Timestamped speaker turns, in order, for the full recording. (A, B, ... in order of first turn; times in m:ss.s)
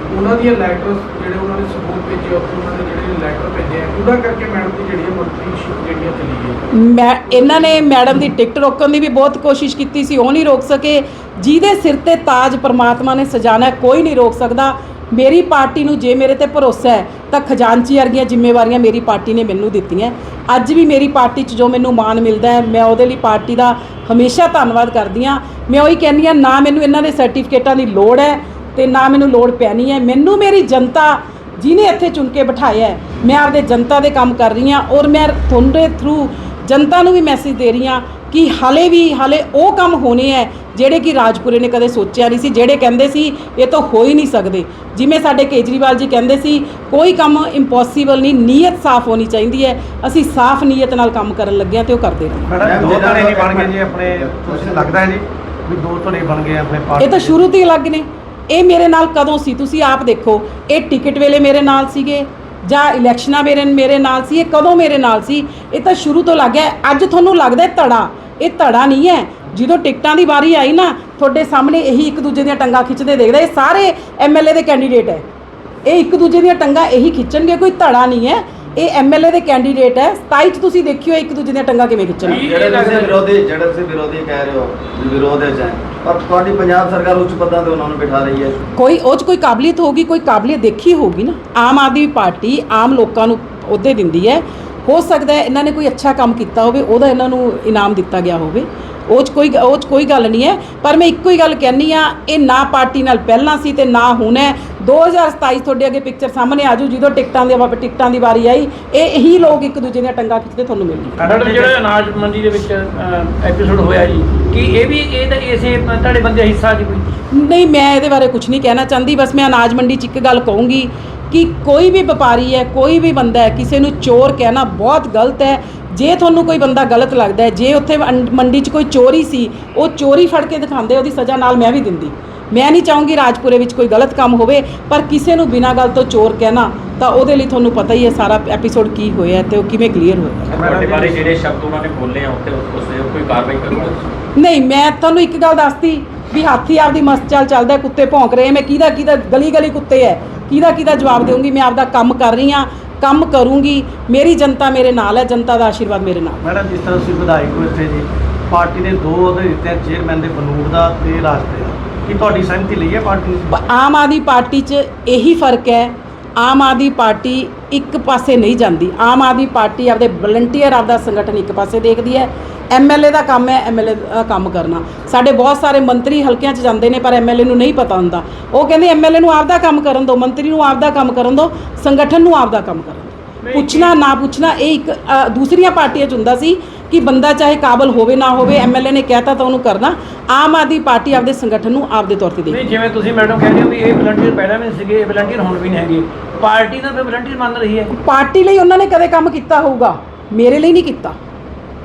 0:00.1-0:06.6 A
0:06.7-0:52.6 B
0:07.3-0:07.6 A
0:52.5-0:57.4 C
0:52.6-0:55.0 D
0:57.0-1:15.3 B
1:15.9-1:22.4 B
1:22.2-1:23.2 E
1:22.3-1:28.6 D
1:28.8-1:51.2 B
1:51.2-1:51.8 C
1:51.2-1:57.0 E
1:57.3-2:20.6 B
2:20.5-2:24.1 F
2:20.6-2:21.3 C
2:24.4-2:36.4 B
2:36.4-2:43.5 C
2:43.5-3:12.6 B
3:03.4-3:03.9 E
3:12.5-3:17.9 E
3:17.9-3:21.2 B